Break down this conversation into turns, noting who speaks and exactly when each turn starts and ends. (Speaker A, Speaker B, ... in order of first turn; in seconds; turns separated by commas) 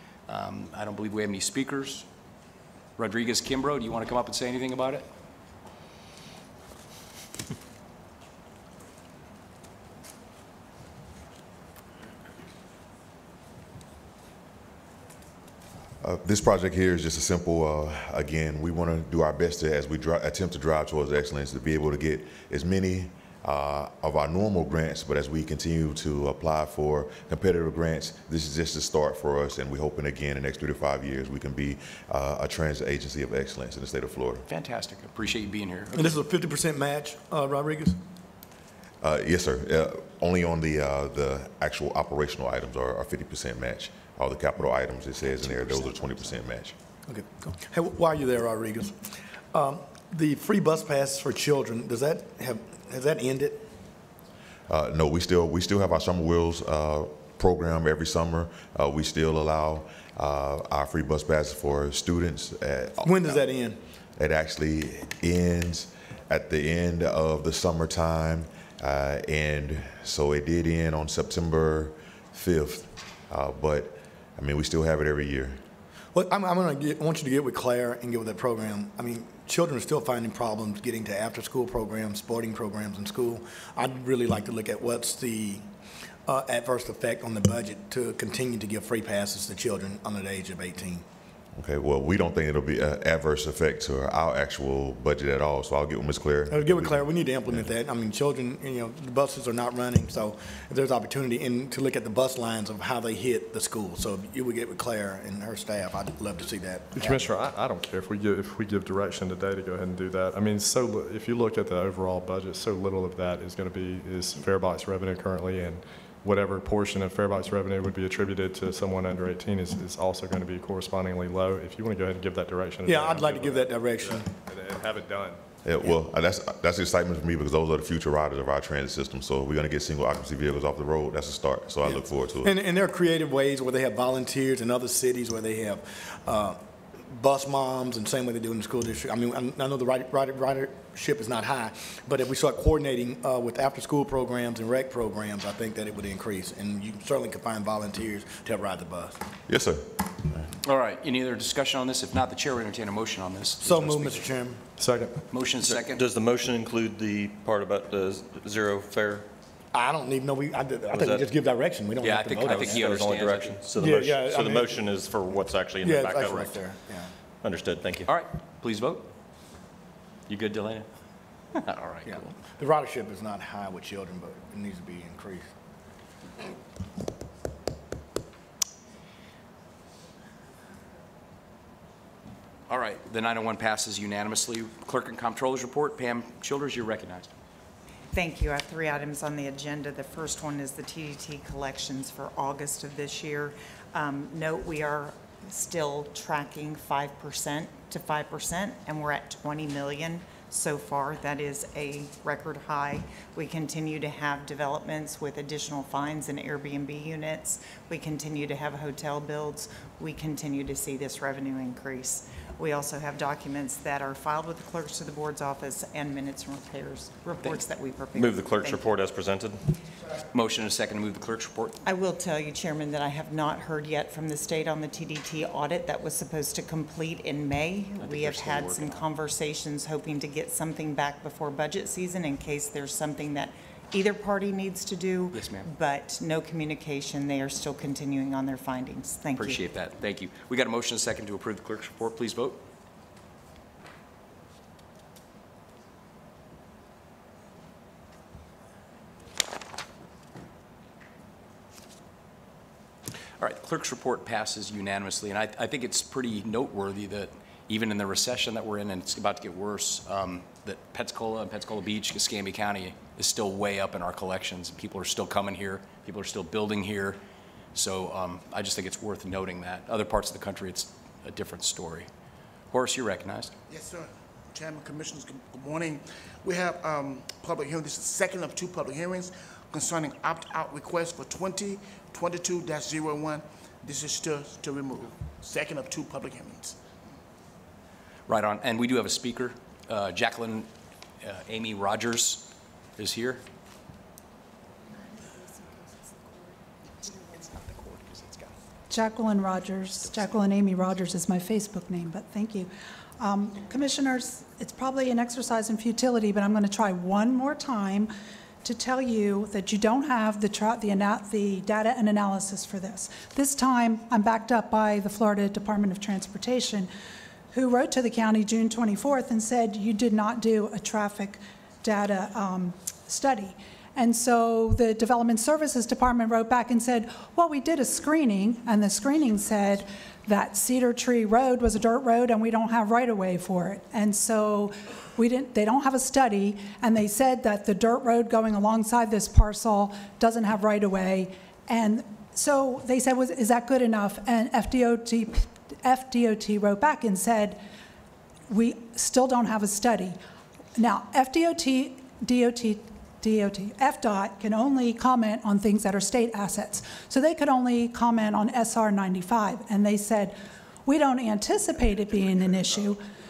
Speaker A: 0.3-2.0, Speaker A: 3.0-5.0, Speaker B: 16.0-34.5, Speaker A: 34.5-36.2, Speaker C: 35.9-38.0, Speaker B: 39.0-46.7, Speaker A: 45.4-46.1, Speaker C: 47.1-53.6, Speaker B: 54.7-63.4, Speaker C: 63.0-63.8, Speaker B: 64.2-75.6, Speaker C: 76.1-85.6, Speaker C: 86.2-91.0, Speaker B: 91.5-97.7, Speaker C: 96.5-107.3, Speaker D: 107.0-125.4, Speaker C: 122.8-124.3, Speaker B: 125.6-132.5, Speaker C: 131.8-149.2, Speaker B: 149.5-150.4, Speaker A: 150.6-154.3, Speaker C: 153.6-154.7, Speaker D: 154.8-155.2, Speaker A: 155.3-156.0, Speaker E: 155.6-159.2, Speaker C: 159.7-162.9, Speaker E: 160.9-161.2, Speaker A: 162.0-163.6, Speaker E: 162.4-166.7, Speaker C: 163.7-164.8, Speaker C: 165.8-167.1, Speaker E: 167.4-168.1, Speaker A: 168.1-169.1, Speaker A: 170.3-170.9, Speaker A: 171.6-172.4, Speaker C: 172.1-175.5, Speaker A: 182.7-187.3, Speaker F: 188.1-218.9, Speaker E: 218.2-219.6, Speaker A: 220.3-221.8, Speaker F: 221.8-239.6, Speaker A: 227.9-229.1, Speaker A: 235.3-235.7, Speaker A: 239.3-242.6, Speaker A: 253.4-267.2, Speaker A: 267.7-272.1, Speaker A: 272.7-273.5, Speaker G: 273.7-286.8, Speaker A: 288.3-290.7, Speaker A: 291.2-293.4, Speaker A: 297.0-298.6, Speaker H: 298.9-308.1, Speaker A: 300.1-300.3, Speaker H: 308.6-316.9, Speaker H: 317.5-347.6, Speaker H: 348.5-350.2, Speaker H: 350.8-363.0